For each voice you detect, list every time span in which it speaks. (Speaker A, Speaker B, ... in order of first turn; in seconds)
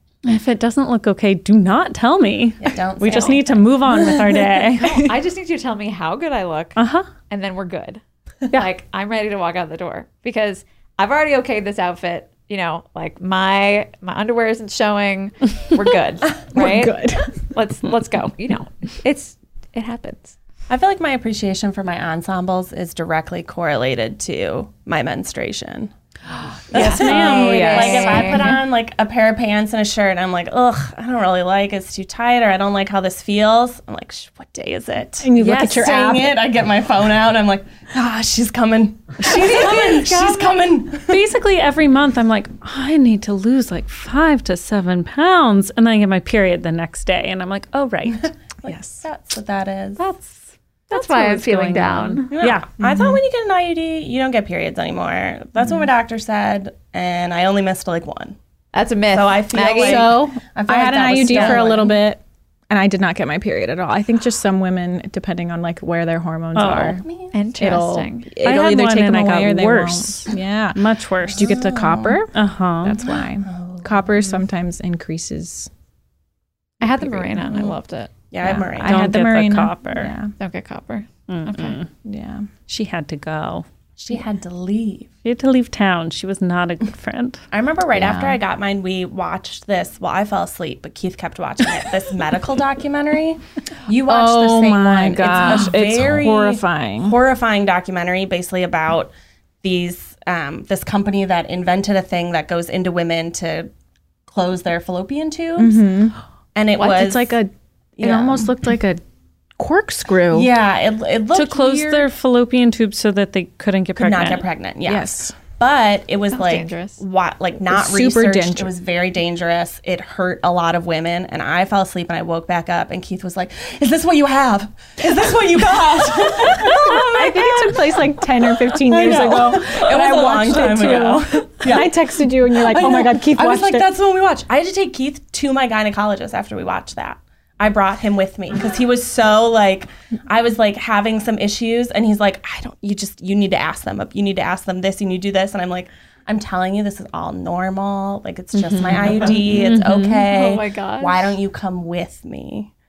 Speaker A: 0.2-5.1, 6.8-7.1, 26.7-28.6, 35.4-35.8, 39.3-40.0, 41.0-48.4, 50.0-52.7, 66.5-67.0, 68.4-71.7, 72.3-73.1, 78.5-80.1, 81.3-81.9, 82.7-83.7, 85.2-87.4, 111.3-114.5, 148.5-150.3
Speaker B: 2.6-4.6, 20.7-25.9, 26.7-41.2, 48.6-50.0, 52.3-58.4, 59.1-62.0, 67.0-67.3, 71.3-72.2, 73.4-74.1, 78.3-79.1, 84.0-85.1, 87.5-103.7, 104.3-105.8, 106.5-107.4, 108.0-108.5, 110.3-112.1, 114.0-152.7
Speaker C: 4.8-6.8, 7.3-20.4, 26.8-28.6, 39.2-40.5, 50.9-52.3, 58.7-60.2, 67.3-68.3, 76.8-78.1, 80.4-81.8, 116.3-117.0, 150.3-151.3
Speaker D: 16.4-17.3, 26.8-28.1, 35.2-36.4, 48.7-49.0, 52.8-53.2, 59.7-67.0, 67.6-75.7, 77.0-77.7, 78.4-80.3, 82.0-82.5, 88.0-88.3, 94.0-97.2, 105.6-106.2, 106.7-109.0, 109.6-110.5, 114.9-115.3, 117.7-118.7, 126.5-133.9